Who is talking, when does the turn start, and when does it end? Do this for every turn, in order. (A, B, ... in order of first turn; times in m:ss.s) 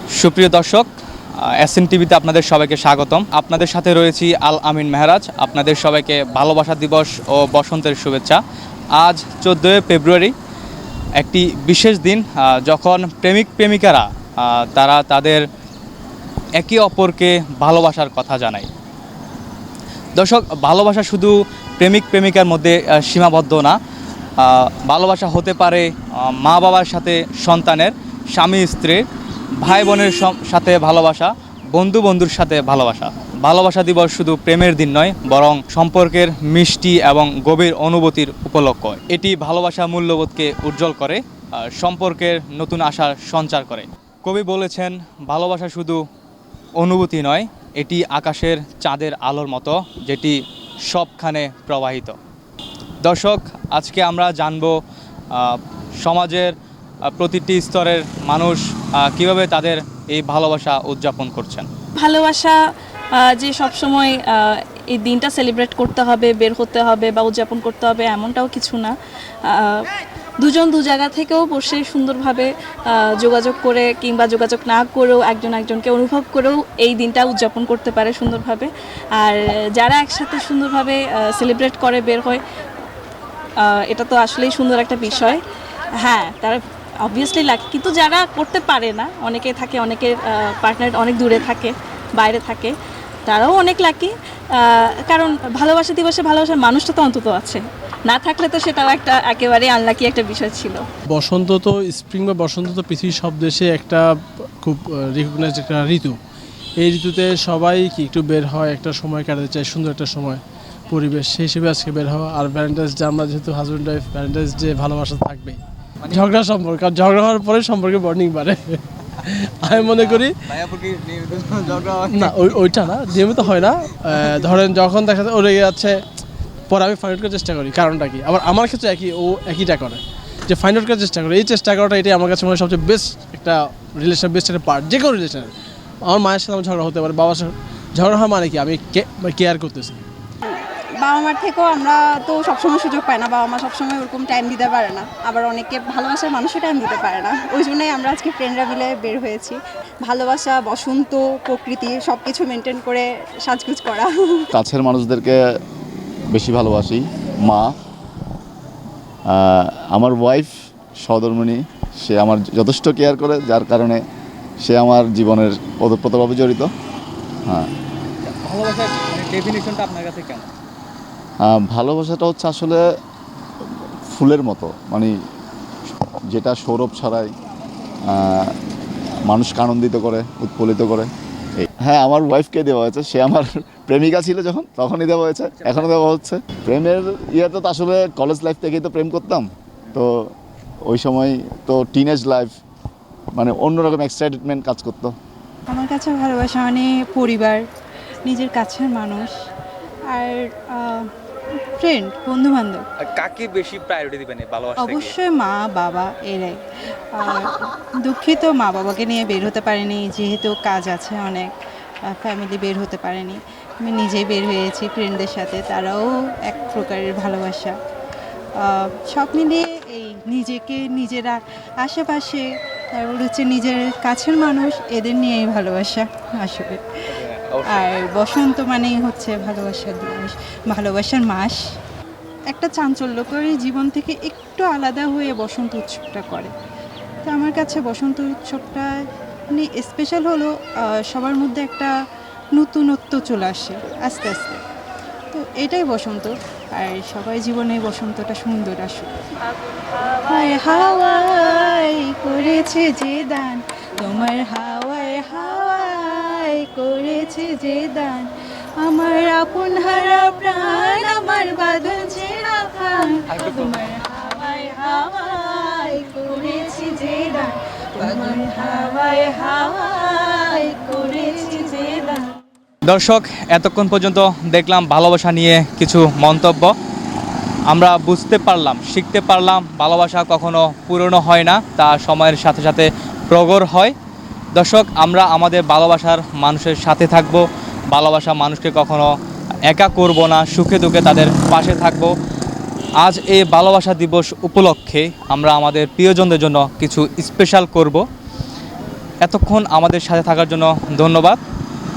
0:00.2-0:00.9 A
0:01.6-0:08.4 A
0:09.0-0:10.3 A
0:11.2-0:15.4 A
0:16.6-0:18.7 A
0:20.2-0:23.8 A
0:24.4-0:29.0 A
0:29.6-0:46.0 A
0:46.8-0:50.4 A
0:50.9-0:52.2 A
0:53.0-0:54.8 A
0:55.3-0:56.5 A
0:57.2-1:01.7 A
1:02.0-1:02.6 B
1:03.2-1:08.9 B
1:09.5-1:09.9 B
1:10.4-1:22.4 B
1:23.6-1:25.4 B
1:26.0-1:32.7 B
1:33.3-1:40.8 B
1:41.1-1:46.2 C
1:46.8-2:00.5 C
1:59.8-2:02.6 A
2:01.9-2:06.0 C
2:06.7-2:15.5 C
2:16.1-2:20.0 C
2:20.4-2:34.5 D
2:34.5-2:35.4 E
2:36.3-2:37.8 E
2:39.3-2:40.5 E
2:41.0-2:44.0 E
2:44.6-2:46.7 E
2:48.2-2:50.5 A
2:51.4-2:52.8 E
2:54.1-2:55.1 E
2:56.3-2:57.3 E
2:58.1-2:58.6 E
2:59.3-3:10.3 E
3:10.9-3:12.5 E
3:13.4-3:15.1 E
3:15.7-3:17.6 F
3:18.2-3:19.3 F
3:20.1-3:21.1 F
3:21.8-3:22.8 F
3:23.0-3:25.1 A
3:24.8-3:26.6 F
3:27.1-3:31.5 F
3:32.1-3:37.8 F
3:38.6-3:46.8 F
3:47.1-3:47.7 A
3:47.6-3:51.6 F
3:52.5-3:56.5 F
3:57.3-3:58.9 F
3:59.5-4:01.9 F
4:02.6-4:04.6 F
4:05.3-4:09.1 F
4:10.2-4:18.3 F
4:18.8-4:32.3 F
4:32.9-4:36.7 A
4:37.7-4:43.9 A
4:44.6-4:49.1 A
4:49.7-4:52.1 A
4:53.0-4:58.0 A
4:59.2-5:01.4 A